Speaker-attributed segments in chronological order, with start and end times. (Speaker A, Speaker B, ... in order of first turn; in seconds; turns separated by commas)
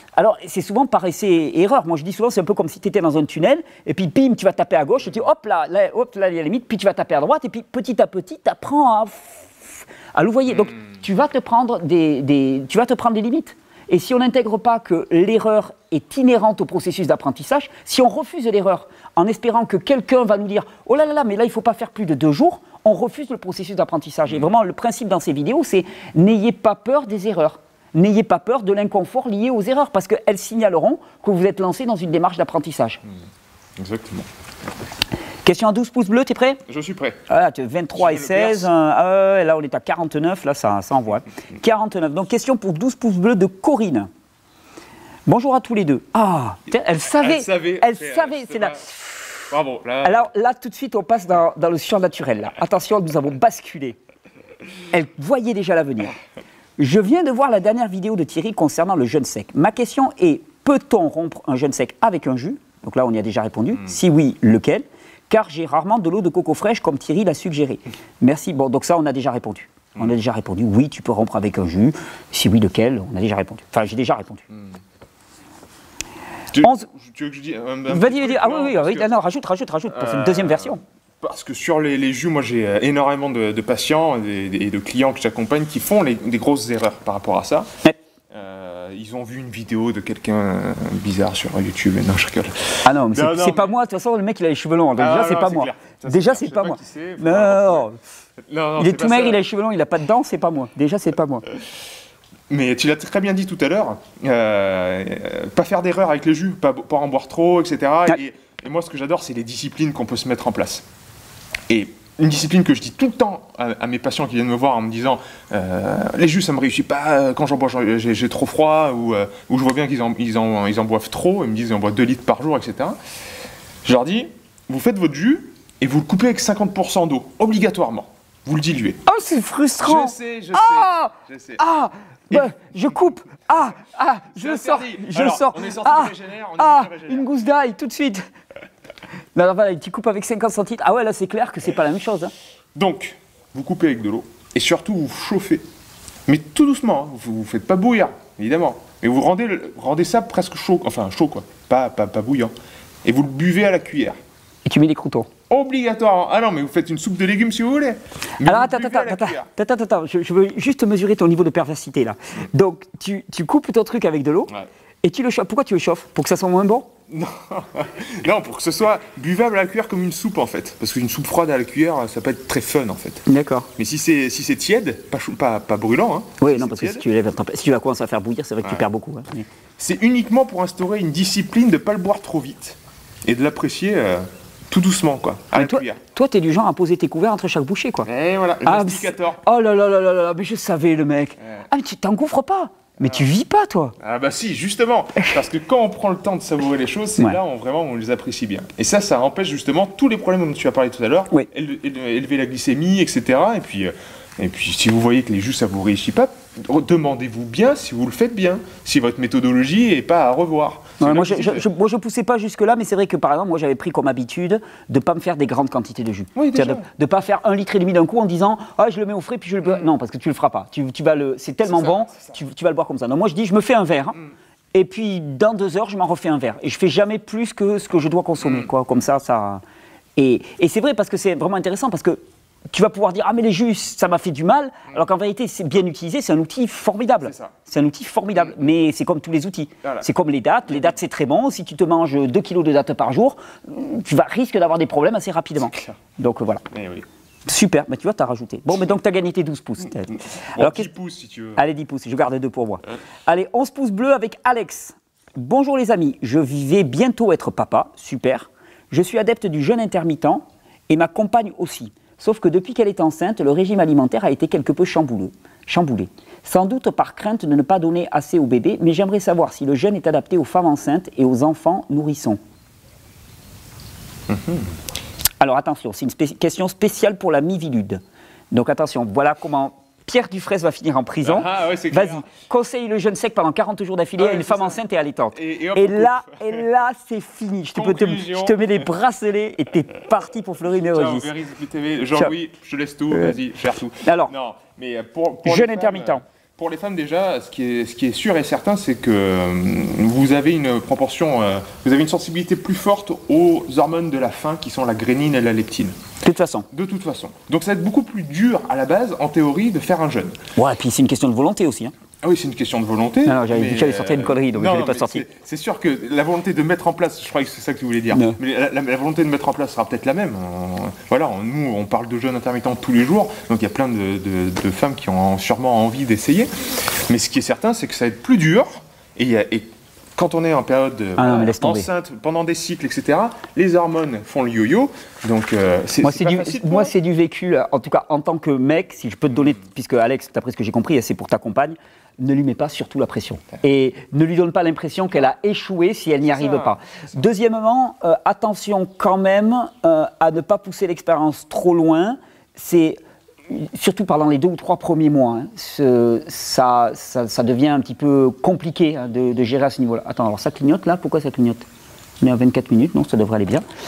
Speaker A: 0.2-33.0, Speaker B: 33.8-34.3, Speaker A: 35.4-36.6, Speaker B: 36.7-37.2, Speaker A: 37.3-44.1, Speaker B: 38.0-38.7, Speaker A: 45.3-49.4, Speaker B: 47.1-48.8, Speaker B: 49.5-50.2, Speaker A: 50.0-54.0, Speaker A: 54.9-56.1, Speaker A: 56.8-74.5, Speaker B: 76.5-79.1, Speaker A: 76.6-76.8, Speaker A: 77.9-80.8, Speaker B: 79.9-87.7, Speaker B: 88.3-93.7, Speaker A: 92.8-98.0, Speaker B: 95.0-97.9, Speaker B: 98.5-99.4, Speaker A: 98.8-101.4, Speaker B: 102.5-110.8, Speaker B: 111.7-123.0, Speaker B: 123.8-129.0, Speaker A: 129.1-138.2, Speaker B: 129.8-131.6, Speaker B: 134.3-137.3, Speaker A: 139.3-142.3, Speaker B: 142.7-145.6, Speaker B: 146.2-152.5, Speaker B: 153.0-154.2, Speaker A: 154.7-155.3, Speaker B: 155.5-159.5, Speaker A: 158.4-164.5, Speaker A: 165.0-166.9, Speaker B: 167.1-173.2, Speaker A: 173.3-173.7, Speaker B: 173.8-177.0, Speaker A: 176.4-179.4, Speaker B: 179.8-186.0, Speaker A: 185.5-188.1, Speaker B: 188.0-189.4, Speaker A: 188.6-193.9, Speaker B: 194.0-211.7, Speaker A: 211.0-224.2, Speaker B: 216.3-216.8, Speaker B: 221.7-222.3, Speaker A: 224.7-229.6, Speaker B: 228.4-228.7, Speaker A: 230.2-246.7, Speaker B: 237.2-237.5, Speaker B: 246.7-247.0, Speaker A: 247.4-250.9, Speaker B: 250.4-251.6, Speaker A: 251.6-272.4, Speaker B: 274.3-274.8, Speaker A: 275.4-291.3, Speaker B: 281.2-282.2, Speaker B: 284.2-284.8, Speaker B: 285.3-286.6, Speaker B: 287.7-288.9, Speaker B: 290.8-305.9, Speaker A: 293.1-293.4, Speaker A: 294.0-294.3, Speaker A: 295.4-296.2, Speaker A: 306.2-306.7, Speaker B: 306.7-310.4, Speaker A: 310.6-311.9, Speaker B: 312.2-336.9, Speaker A: 313.2-315.2, Speaker A: 318.1-318.4, Speaker A: 331.2-331.9, Speaker A: 336.0-361.6, Speaker B: 346.2-346.8, Speaker A: 362.2-363.6